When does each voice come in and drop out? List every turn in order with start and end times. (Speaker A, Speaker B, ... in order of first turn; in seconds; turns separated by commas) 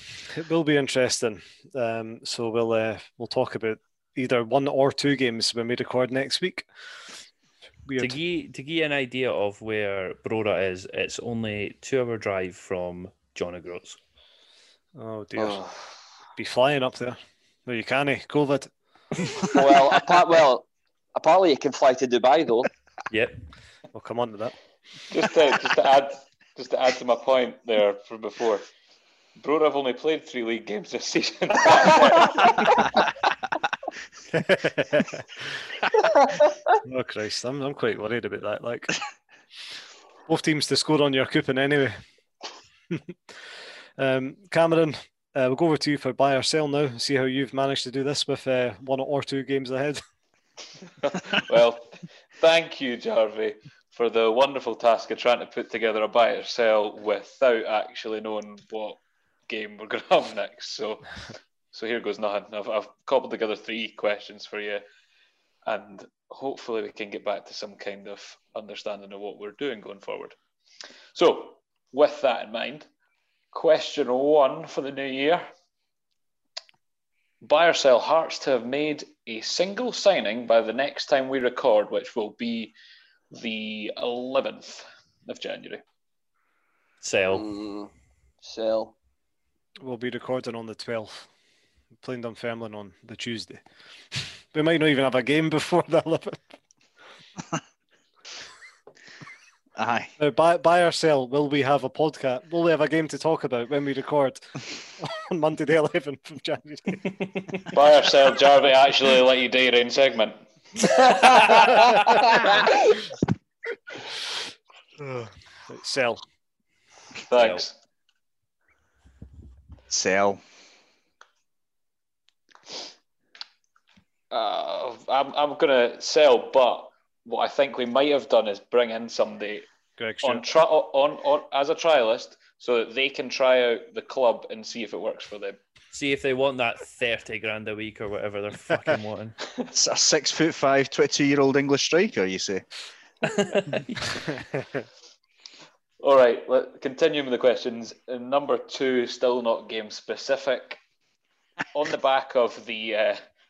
Speaker A: 0.2-6.7, Speaker A: 7.9-8.2, Speaker B: 8.0-14.0, Speaker A: 14.9-15.7, Speaker C: 15.4-15.7, Speaker A: 16.4-18.7, Speaker A: 19.2-19.6, Speaker C: 19.5-22.7, Speaker B: 23.1-23.4, Speaker A: 23.9-24.6, Speaker D: 25.1-28.6, Speaker D: 29.4-32.9, Speaker A: 34.3-35.6, Speaker A: 36.8-39.0, Speaker A: 40.3-42.0, Speaker A: 42.9-43.3, Speaker A: 44.0-50.0, Speaker D: 51.0-61.2, Speaker D: 61.7-64.8, Speaker D: 65.7-70.4, Speaker D: 71.2-72.9, Speaker D: 73.5-75.5, Speaker D: 77.4-82.7, Speaker D: 83.3-85.8, Speaker B: 87.0-87.5, Speaker C: 87.3-87.9, Speaker C: 88.4-89.0, Speaker A: 89.8-91.3, Speaker A: 92.0-96.5, Speaker E: 99.8-100.1, Speaker A: 100.2-107.1, Speaker D: 107.7-112.7, Speaker A: 115.0-116.2, Speaker D: 117.3-117.8, Speaker B: 117.3-117.6, Speaker E: 119.9-120.4, Speaker D: 124.3-129.7, Speaker A: 130.0-130.6, Speaker D: 130.2-135.6, Speaker B: 135.9-139.4, Speaker E: 139.7-142.7, Speaker B: 143.2-144.3, Speaker D: 146.0-150.8, Speaker D: 151.7-153.2